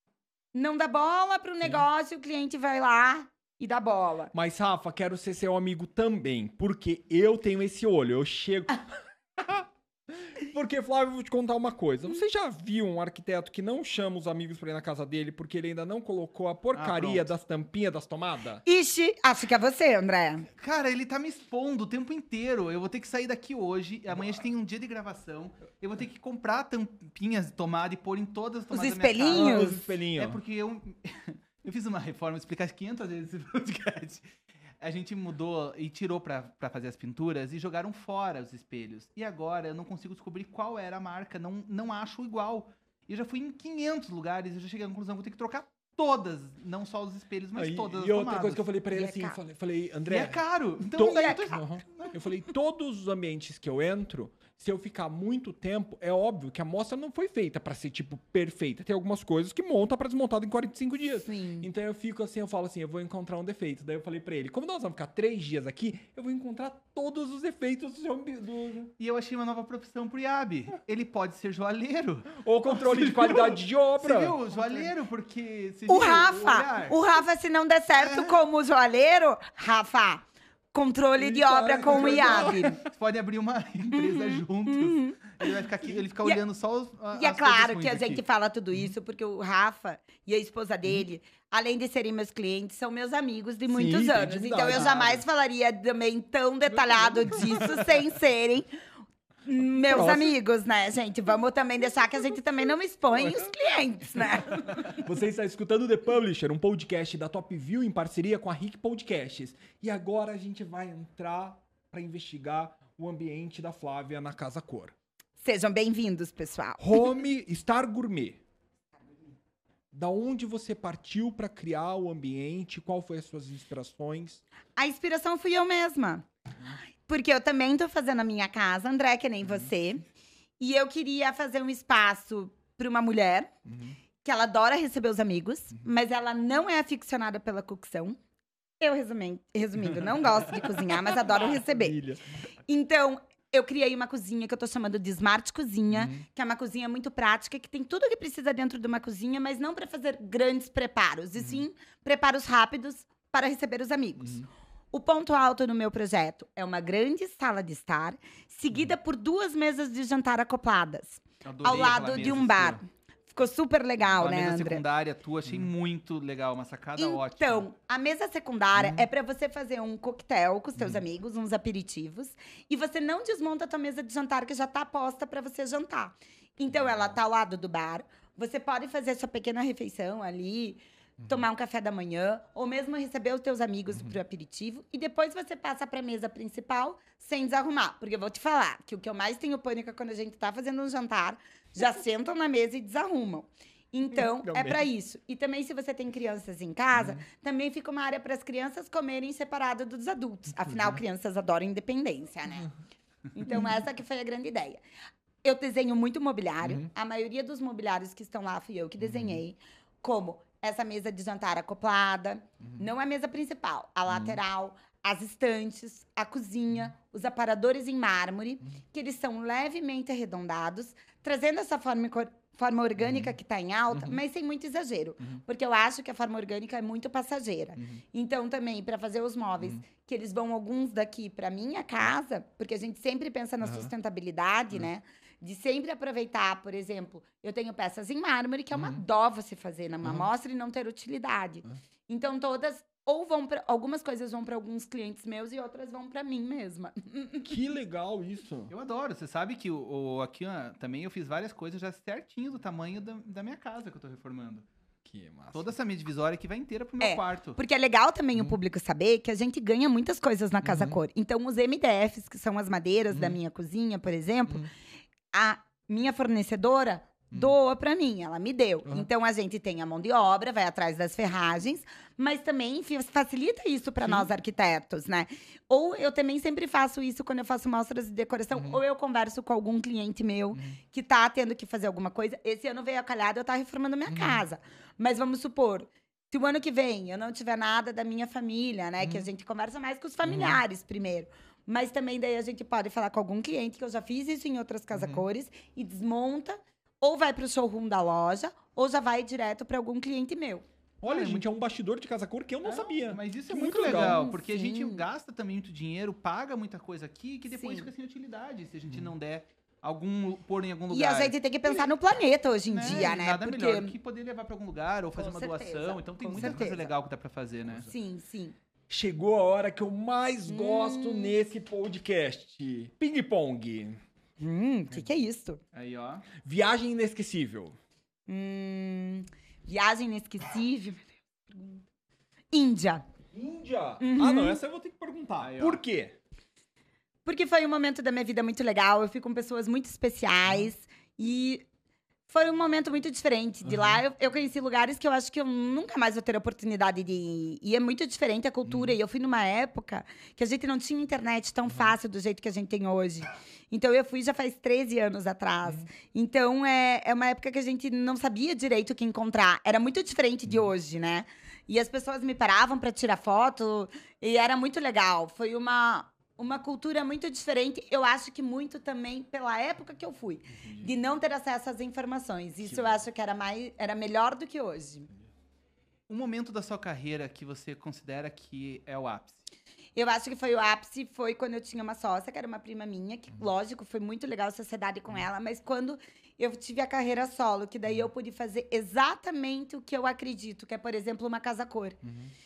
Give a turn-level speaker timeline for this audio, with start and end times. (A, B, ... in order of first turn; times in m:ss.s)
0:00.5-0:04.3 A
0:04.3-0:08.8 B
0:09.4-0:09.6 B
0:10.3-0:18.6 B
0:16.7-0:17.3 C
0:18.6-0:20.5 A
0:20.6-0:34.2 C
0:24.1-0:24.5 B
0:28.7-0:29.8 A
0:29.3-0:30.4 B
0:34.8-0:48.7 C
0:47.5-1:08.9 B
0:48.9-0:49.4 A
0:50.1-0:52.1 C
0:51.0-0:51.6 A
1:01.2-1:01.7 A
1:09.0-1:17.0 C
1:12.4-1:14.4 B
1:15.9-1:22.8 A
1:18.0-1:18.4 C
1:21.2-1:22.8 B
1:21.9-1:28.2 C
1:23.9-1:25.4 A
1:27.1-1:38.7 A
1:33.7-1:35.2 B
1:34.7-1:35.1 C
1:36.7-1:37.9 B
1:39.4-1:44.8 A
1:39.9-1:40.3 B
1:44.4-1:54.9 B
1:55.4-1:57.0 A
1:56.8-1:58.4 B
1:59.9-2:04.4 B
2:04.8-2:06.2 A
2:07.0-2:10.0 A
2:10.6-2:13.5 A
2:13.7-2:13.9 B
2:14.2-2:18.2 A
2:18.8-2:22.0 A
2:21.1-2:22.2 B
2:22.7-2:44.8 A
2:25.9-2:26.2 B
2:31.4-2:31.6 B
2:34.2-2:34.5 B
2:41.4-2:42.8 C
2:44.1-2:47.6 C
2:47.0-3:22.7 A
2:48.7-2:49.1 B
2:50.8-2:51.0 B
3:14.2-3:14.8 B
3:16.9-3:17.2 B
3:20.7-3:21.0 B
3:23.3-3:24.8 A
3:25.4-4:07.5 A
3:26.6-3:26.9 B
3:29.0-3:29.4 B
3:34.1-3:34.4 B
3:43.0-3:43.3 B
3:43.9-3:44.2 B
3:53.6-3:53.9 B
3:58.7-3:59.0 B
4:00.0-4:00.3 B
4:07.4-4:08.7 B
4:08.7-4:14.7 C
4:15.0-4:15.7 B
4:15.5-4:17.6 C
4:17.0-4:24.7 A
4:20.6-4:21.0 B
4:23.1-4:23.4 B
4:25.3-5:00.6 A
4:34.0-4:34.3 B
4:38.5-4:38.8 B
4:40.5-4:40.8 B
4:44.1-4:44.4 B
4:49.0-4:49.3 B
4:50.2-4:50.6 B
4:54.9-4:55.2 B
5:01.0-5:01.4 C
5:01.0-5:04.2 B
5:02.6-5:11.9 C
5:03.6-5:05.0 A
5:07.5-5:07.9 A
5:10.9-5:13.9 A
5:12.7-5:17.8 C
5:12.8-5:13.2 B
5:15.1-5:16.9 A
5:16.4-5:16.6 B
5:17.8-5:18.6 A
5:18.9-5:24.0 B
5:20.4-5:21.4 A
5:24.4-5:25.6 A
5:25.7-5:26.3 C
5:26.4-5:27.8 B
5:28.3-5:31.8 A
5:32.5-5:33.1 A
5:33.3-5:36.2 B
5:34.0-5:34.6 A
5:35.4-5:35.8 C
5:37.2-5:41.6 A
5:42.3-6:15.1 A
5:43.6-5:44.0 B
5:48.6-5:49.0 B
5:51.6-5:51.9 B
6:16.1-6:19.4 C
6:19.9-6:32.0 A
6:32.0-6:32.3 B